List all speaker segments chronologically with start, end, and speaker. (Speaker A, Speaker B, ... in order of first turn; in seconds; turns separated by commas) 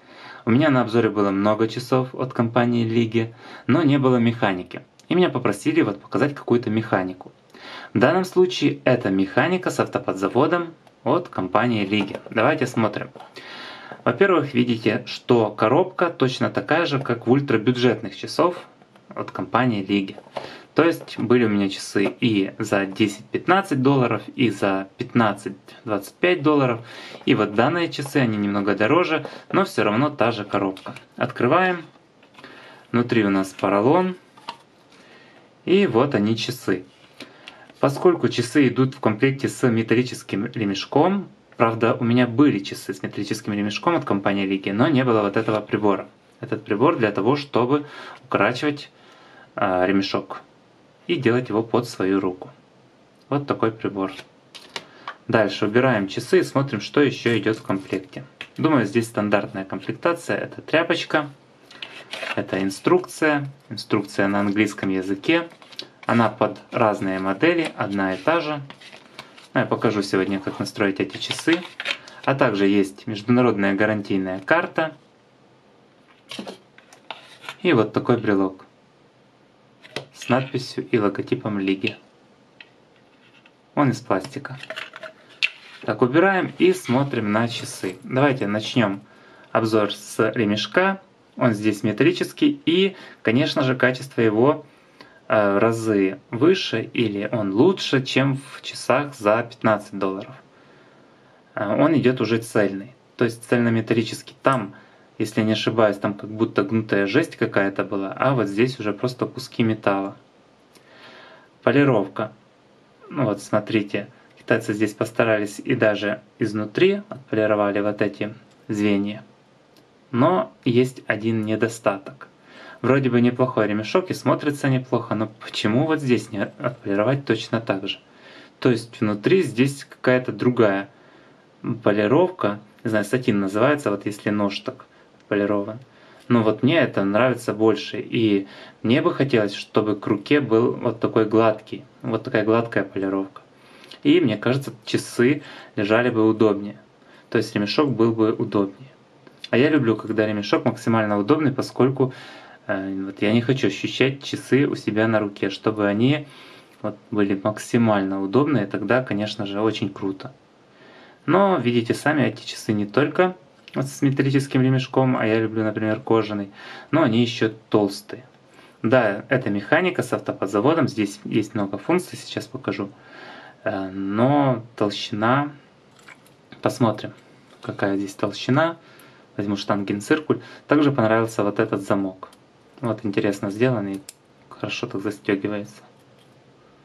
Speaker A: 0.5-7.3, Speaker A: 7.9-13.1, Speaker A: 14.1-20.2, Speaker A: 20.7-31.9, Speaker A: 32.9-34.2, Speaker A: 35.6-36.9, Speaker A: 37.8-48.9, Speaker A: 49.6-50.4, Speaker A: 51.1-52.5, Speaker A: 53.3-54.2, Speaker A: 55.3-61.3, Speaker A: 62.4-65.5, Speaker A: 66.1-68.7, Speaker A: 69.5-71.7, Speaker A: 72.2-75.0, Speaker A: 77.6-78.7, Speaker A: 80.1-82.0, Speaker A: 83.8-84.6, Speaker A: 85.8-94.6, Speaker A: 95.3-100.4, Speaker A: 101.5-110.2, Speaker A: 111.6-112.3, Speaker A: 113.1-119.2, Speaker A: 120.1-128.0, Speaker A: 128.6-130.9, Speaker A: 131.6-143.4, Speaker A: 144.0-148.9, Speaker A: 149.5-152.1, Speaker A: 152.7-156.3, Speaker A: 156.8-160.3, Speaker A: 161.3-168.3, Speaker A: 168.8-172.9, Speaker A: 173.6-175.5, Speaker A: 176.6-178.8, Speaker A: 179.4-185.9